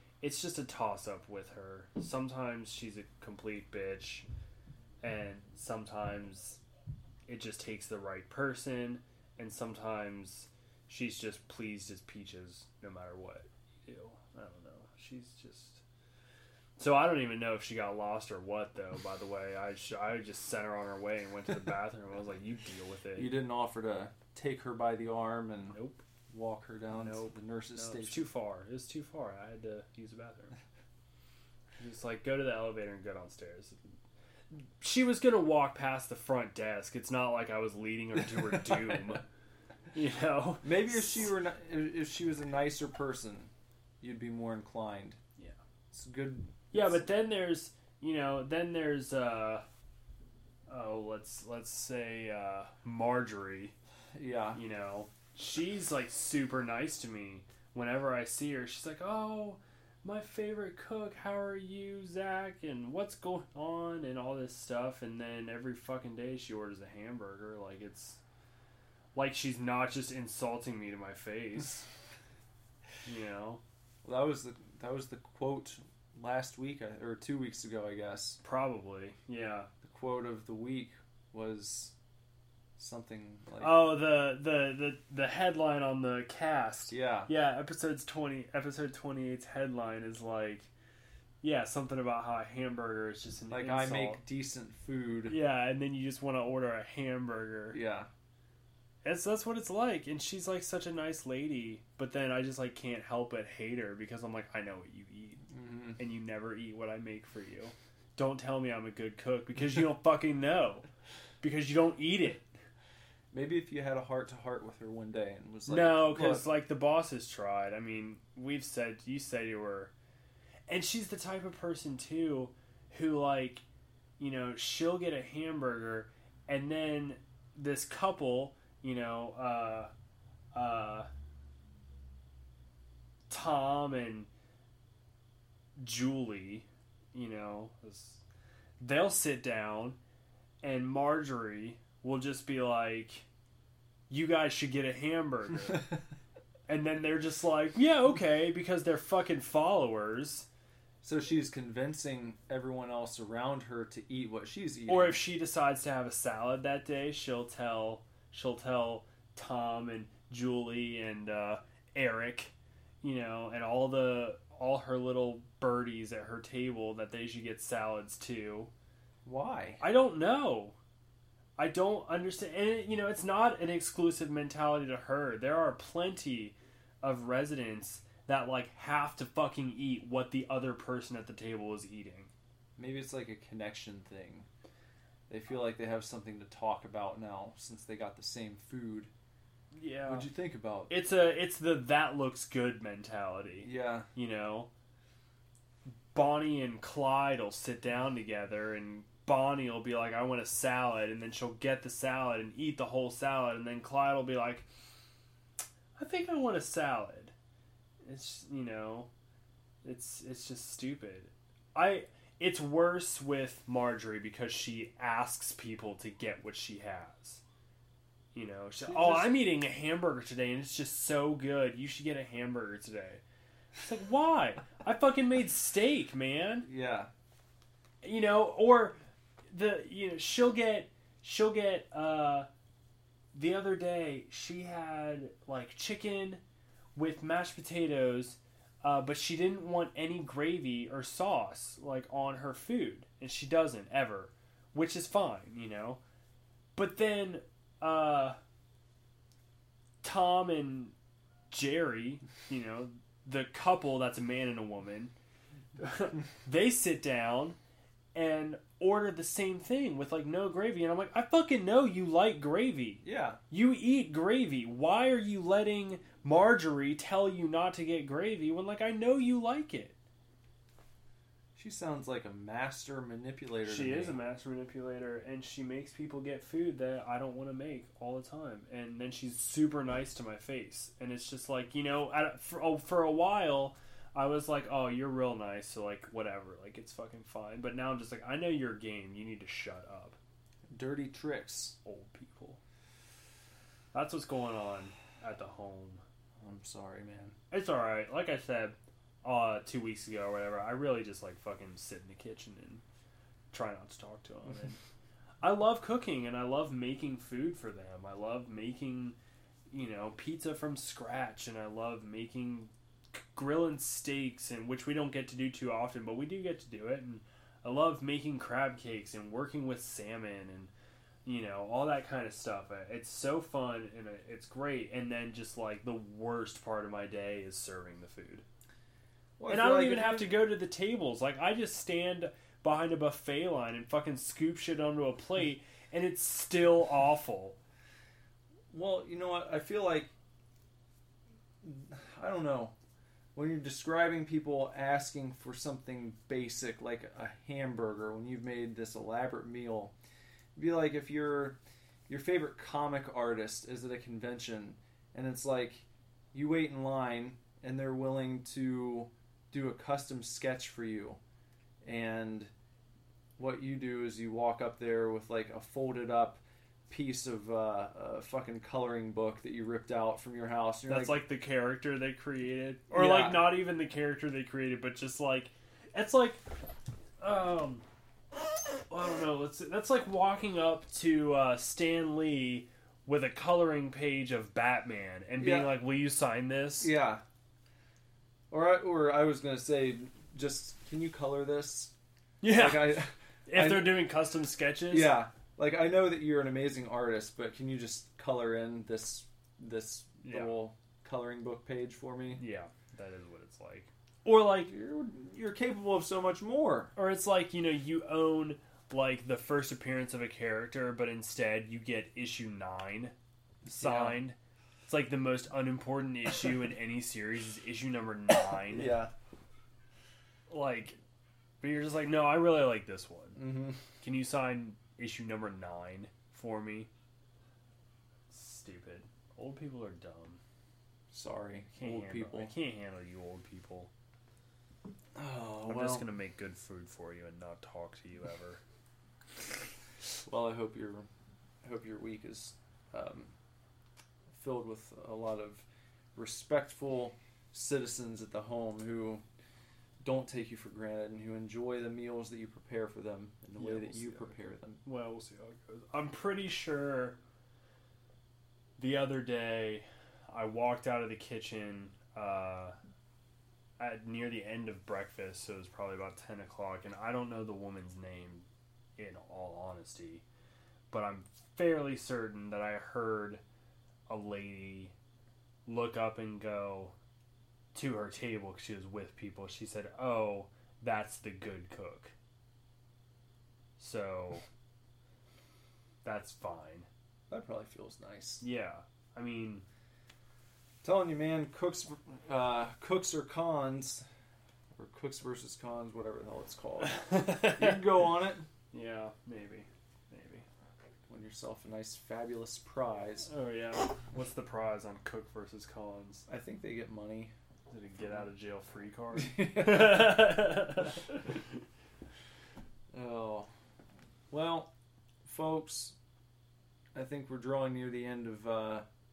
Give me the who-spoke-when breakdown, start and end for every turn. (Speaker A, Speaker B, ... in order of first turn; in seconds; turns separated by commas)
Speaker A: 0.2-4.2, Speaker A: 5.0-6.6, Speaker A: 7.2-15.8, Speaker A: 16.8-23.3, Speaker B: 23.1-25.8, Speaker A: 25.7-26.0, Speaker B: 26.3-28.3, Speaker A: 27.0-30.6, Speaker A: 31.8-33.9, Speaker A: 34.5-39.2, Speaker A: 39.9-40.6, Speaker B: 40.6-43.5, Speaker B: 44.0-45.2, Speaker B: 45.9-47.0, Speaker A: 46.7-49.6, Speaker A: 50.7-53.7, Speaker B: 54.1-54.6, Speaker A: 54.5-68.2, Speaker A: 69.1-71.9, Speaker A: 73.0-73.6, Speaker B: 74.0-78.4, Speaker A: 78.4-79.7, Speaker B: 79.8-81.9, Speaker B: 82.8-83.9, Speaker A: 83.6-90.7, Speaker B: 86.9-87.3, Speaker A: 91.4-94.2, Speaker B: 93.5-95.3, Speaker A: 95.3-97.8, Speaker B: 97.7-98.1, Speaker A: 99.0-105.5, Speaker B: 105.5-106.0, Speaker A: 106.0-110.8, Speaker A: 111.4-112.5, Speaker B: 113.3-116.5, Speaker A: 115.7-119.9, Speaker A: 120.7-123.6, Speaker A: 124.2-129.9, Speaker A: 130.5-131.1, Speaker A: 133.3-134.3, Speaker A: 135.8-138.2, Speaker A: 138.8-140.0, Speaker A: 140.6-143.2, Speaker A: 144.1-146.0, Speaker A: 146.7-150.5, Speaker B: 151.0-155.2, Speaker A: 154.9-168.7, Speaker B: 169.2-169.8, Speaker A: 169.8-170.8, Speaker A: 171.6-182.3, Speaker B: 182.8-184.5, Speaker B: 185.3-189.1, Speaker A: 189.7-190.3, Speaker B: 190.1-190.9, Speaker A: 190.9-194.7, Speaker B: 193.6-194.1, Speaker A: 195.8-204.7, Speaker A: 206.0-207.3, Speaker A: 208.0-209.1, Speaker A: 209.8-217.4, Speaker A: 218.3-223.2, Speaker B: 218.8-219.3, Speaker A: 223.8-226.7, Speaker B: 226.6-227.1, Speaker A: 228.0-229.0, Speaker A: 229.5-232.5, Speaker A: 233.3-236.4, Speaker A: 236.9-246.0, Speaker A: 246.8-248.4, Speaker A: 250.0-250.9, Speaker A: 251.5-255.1, Speaker A: 255.8-257.6, Speaker A: 258.1-269.9, Speaker B: 263.0-263.4, Speaker B: 271.6-274.2, Speaker A: 273.6-290.2, Speaker B: 290.7-291.8, Speaker A: 291.8-292.6, Speaker A: 293.9-296.0, Speaker B: 296.4-297.4, Speaker A: 297.5-302.8, Speaker A: 303.5-304.8, Speaker A: 305.4-309.2, Speaker A: 309.7-320.7, Speaker A: 321.2-328.4, Speaker B: 329.4-330.4, Speaker A: 329.5-337.6, Speaker B: 338.7-340.1, Speaker B: 341.6-342.7, Speaker B: 343.3-349.9, Speaker B: 350.6-361.2, Speaker B: 361.8-362.5, Speaker B: 363.4-371.2, Speaker A: 370.8-376.4, Speaker B: 372.9-373.6, Speaker A: 377.2-377.8, Speaker A: 378.9-386.9, Speaker B: 385.4-385.7, Speaker B: 386.8-387.2, Speaker B: 388.5-391.9, Speaker A: 392.4-395.1, Speaker B: 392.5-394.0, Speaker B: 394.9-402.4, Speaker A: 400.2-400.6, Speaker A: 402.4-404.7, Speaker B: 404.7-406.9, Speaker A: 406.9-413.1, Speaker B: 413.6-414.2, Speaker A: 413.8-419.0, Speaker B: 418.7-419.1, Speaker A: 420.5-421.0, Speaker A: 421.6-426.9, Speaker B: 423.4-423.8, Speaker A: 428.3-430.4, Speaker B: 431.1-432.5, Speaker A: 431.7-433.9, Speaker B: 435.1-436.1, Speaker A: 435.7-438.6, Speaker B: 440.3-441.1, Speaker B: 441.6-443.3, Speaker B: 444.3-449.2, Speaker B: 450.0-454.8, Speaker A: 453.6-457.2, Speaker A: 458.8-462.8, Speaker A: 463.8-470.2, Speaker A: 470.9-473.4, Speaker A: 474.1-474.9, Speaker A: 475.6-476.9, Speaker A: 477.7-482.1, Speaker A: 483.8-484.4, Speaker A: 486.0-486.9, Speaker B: 487.3-488.4, Speaker A: 488.4-489.6, Speaker B: 490.8-494.1, Speaker B: 494.8-498.4, Speaker A: 496.9-497.9, Speaker A: 498.7-500.4, Speaker B: 501.1-503.3, Speaker A: 503.2-506.2, Speaker B: 506.3-507.3, Speaker A: 507.7-511.6, Speaker B: 509.1-510.6, Speaker B: 512.9-513.5, Speaker B: 514.3-514.7, Speaker B: 515.2-516.0, Speaker B: 516.9-518.9